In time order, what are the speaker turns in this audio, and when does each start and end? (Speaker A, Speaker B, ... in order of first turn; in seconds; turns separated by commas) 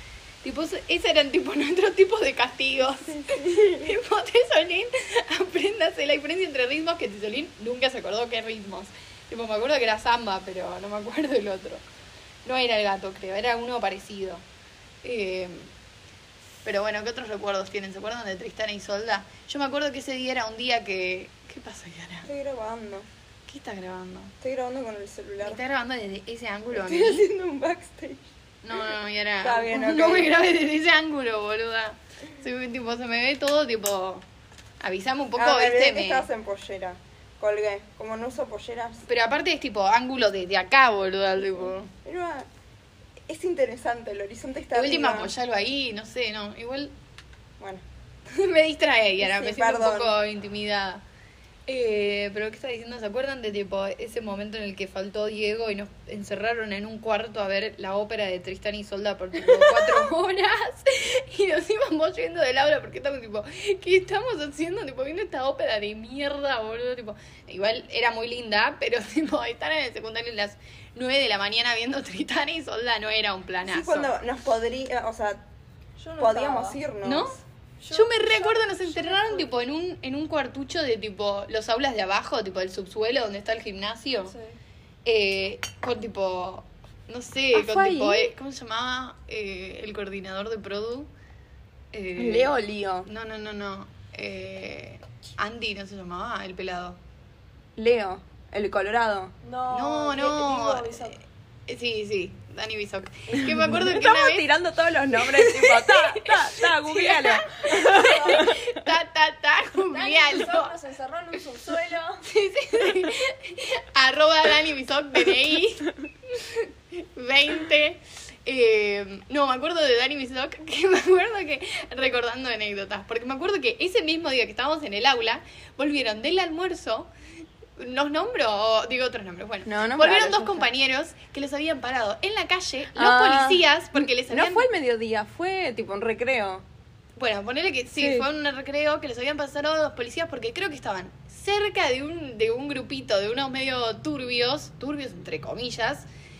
Speaker A: 0.4-11.8, Speaker B: 3.1-3.9, Speaker A: 12.4-14.4, Speaker A: 15.0-15.7, Speaker A: 16.6-22.3, Speaker B: 22.3-23.1, Speaker A: 23.5-24.3, Speaker B: 24.4-25.6, Speaker A: 25.4-27.3, Speaker B: 26.7-28.3, Speaker A: 28.6-34.2, Speaker B: 29.4-30.3, Speaker A: 34.8-36.3, Speaker B: 35.4-39.1, Speaker A: 39.1-41.9, Speaker B: 41.6-42.5, Speaker B: 43.3-45.3, Speaker A: 44.7-46.9, Speaker B: 47.6-47.9, Speaker A: 48.3-51.0, Speaker B: 49.2-50.2, Speaker A: 51.7-74.1, Speaker B: 59.4-60.1, Speaker B: 73.7-75.5, Speaker C: 76.0-76.8, Speaker B: 76.2-77.4, Speaker A: 77.0-77.4, Speaker C: 77.8-79.5, Speaker A: 77.9-84.3, Speaker C: 84.3-84.5, Speaker A: 85.0-91.1, Speaker B: 87.5-88.3, Speaker A: 91.9-92.5, Speaker B: 92.2-93.1, Speaker A: 93.1-97.0, Speaker B: 97.8-99.3, Speaker C: 99.4-101.2, Speaker A: 99.7-101.1, Speaker A: 101.7-104.5, Speaker B: 103.3-108.9, Speaker A: 105.2-110.7, Speaker C: 108.0-108.5, Speaker C: 109.9-112.3, Speaker A: 112.3-127.1, Speaker A: 127.8-134.7, Speaker B: 129.7-130.7, Speaker B: 132.9-136.7, Speaker A: 137.2-146.1, Speaker B: 138.0-138.3